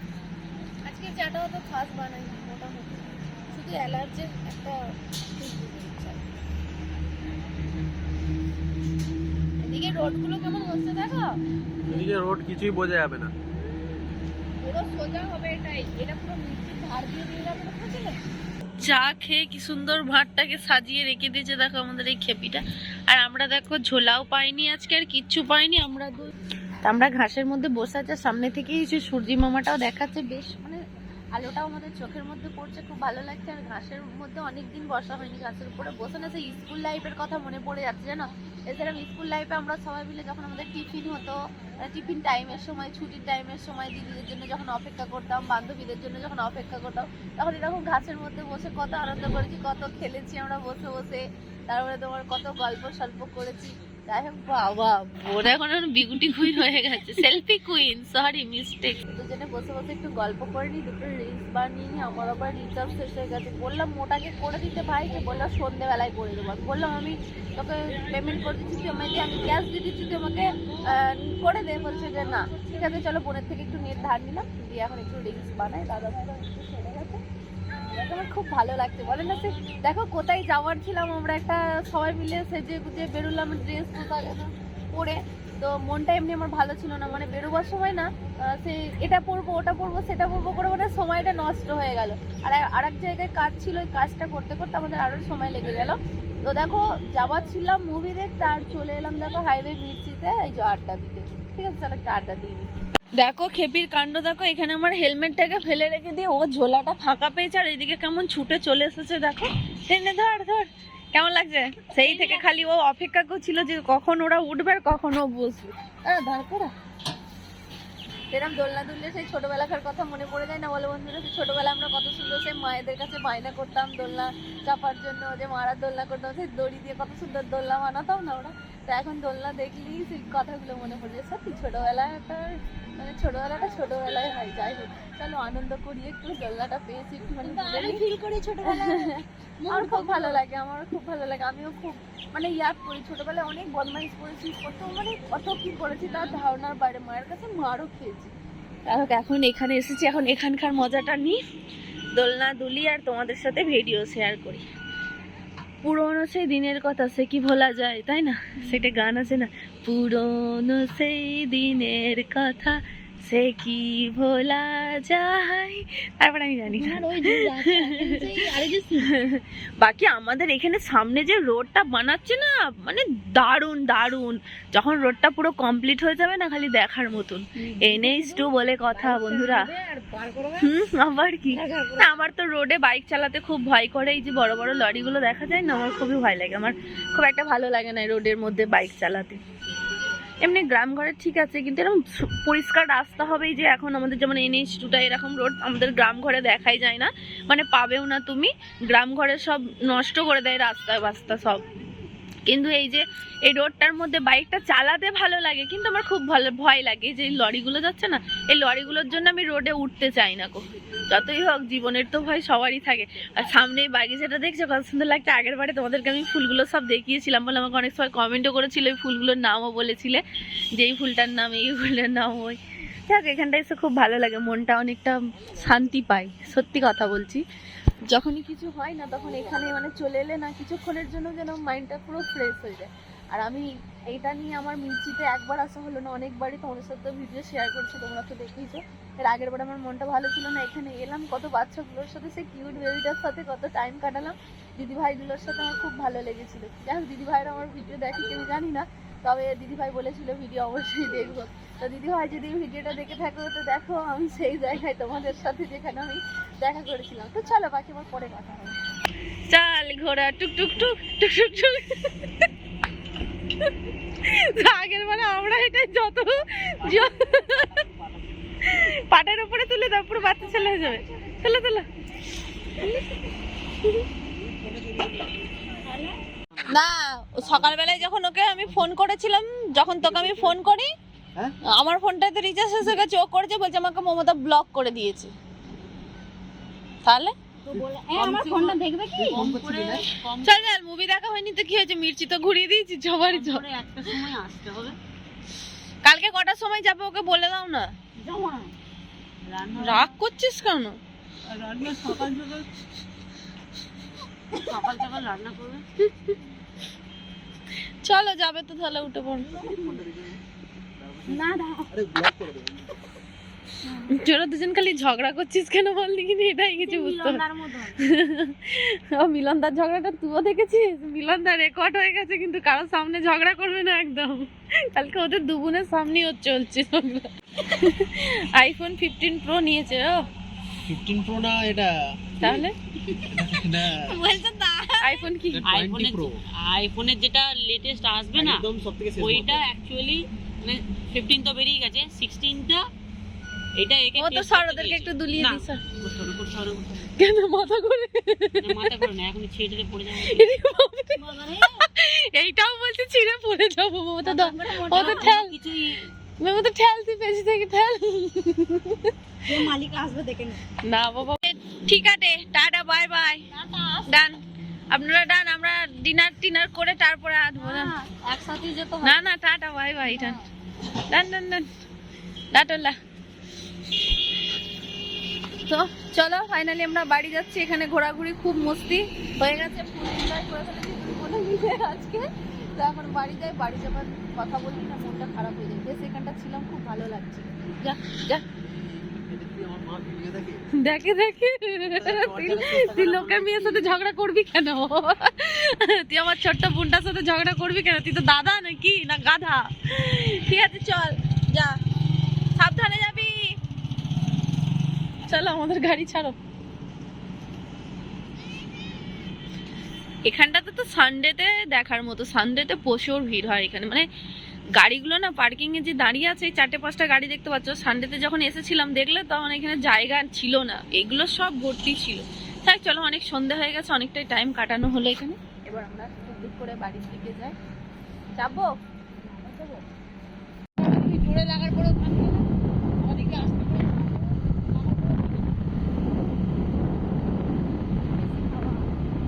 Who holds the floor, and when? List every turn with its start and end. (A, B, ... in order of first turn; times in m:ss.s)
0:00.8-0:06.2 A
0:09.6-0:11.4 A
0:11.9-0:13.3 B
0:14.6-0:18.2 A
0:18.8-0:26.3 A
0:26.8-0:30.8 A
0:31.3-1:17.2 A
1:17.9-1:56.7 A
1:58.3-2:18.0 A
2:17.4-2:19.1 C
2:18.6-2:28.3 A
2:19.6-2:20.4 C
2:28.8-2:31.4 A
2:32.1-2:34.6 A
2:35.8-2:48.4 A
2:46.7-2:49.1 C
2:49.0-2:59.7 A
2:57.6-3:00.7 C
3:00.6-3:09.4 A
3:01.5-3:02.1 C
3:10.2-3:21.6 A
3:22.5-3:40.2 A
3:40.8-3:47.4 A
3:48.1-4:18.8 A
4:19.5-4:22.5 A
4:24.2-4:27.8 A
4:28.6-4:31.8 A
4:30.6-4:31.2 C
4:32.8-4:33.2 C
4:34.4-4:35.2 B
4:35.7-4:36.2 C
4:36.7-4:40.9 A
4:37.4-4:37.9 B
4:40.1-4:40.5 B
4:41.7-4:45.3 A
4:47.0-4:47.3 A
4:47.7-4:49.4 C
4:48.2-4:48.7 A
4:49.1-4:50.0 B
4:49.3-4:50.7 D
4:50.4-4:53.6 A
4:53.3-4:55.0 D
4:56.0-4:57.9 A
4:58.2-4:58.7 C
4:59.4-5:00.2 D
4:59.8-5:01.0 A
5:01.5-5:02.7 D
5:04.6-5:05.8 D
5:06.1-5:06.3 A
5:08.0-5:09.6 A
5:09.5-5:10.4 B
5:11.0-5:12.9 B
5:11.3-5:11.9 C
5:14.0-5:17.4 A
5:16.8-5:18.0 C
5:18.0-5:30.3 A
5:30.9-5:31.9 B
5:32.4-5:32.7 A
5:33.2-5:34.1 B
5:34.4-5:34.8 C
5:35.0-5:35.7 A
5:35.5-5:36.4 B
5:35.6-5:38.6 D
5:38.4-5:39.6 B
5:39.2-5:42.8 D
5:43.8-5:47.1 D
5:44.2-5:45.8 A
5:47.2-5:48.8 A
5:48.6-5:50.5 D
5:50.2-5:55.6 A
5:51.2-5:51.8 C
5:54.2-5:55.3 C
5:54.7-5:56.1 D
5:56.4-5:59.1 A
5:59.5-6:00.6 C
6:00.8-6:03.4 A
6:03.5-6:04.0 C
6:04.1-6:04.4 A
6:04.9-6:07.9 A
6:07.6-6:09.2 C
6:09.0-6:10.4 A
6:11.1-6:11.6 A
6:12.5-6:12.9 A
6:15.7-6:28.4 A
6:28.5-6:30.6 B
6:30.8-6:41.8 A
6:31.8-6:33.9 B
6:42.6-6:43.4 A
6:45.3-6:46.4 A
6:50.2-6:54.0 A
6:54.7-7:07.5 A
7:08.4-7:08.7 A
7:09.4-7:09.8 C
7:10.8-7:12.4 A
7:13.0-7:15.4 A
7:18.1-7:18.9 A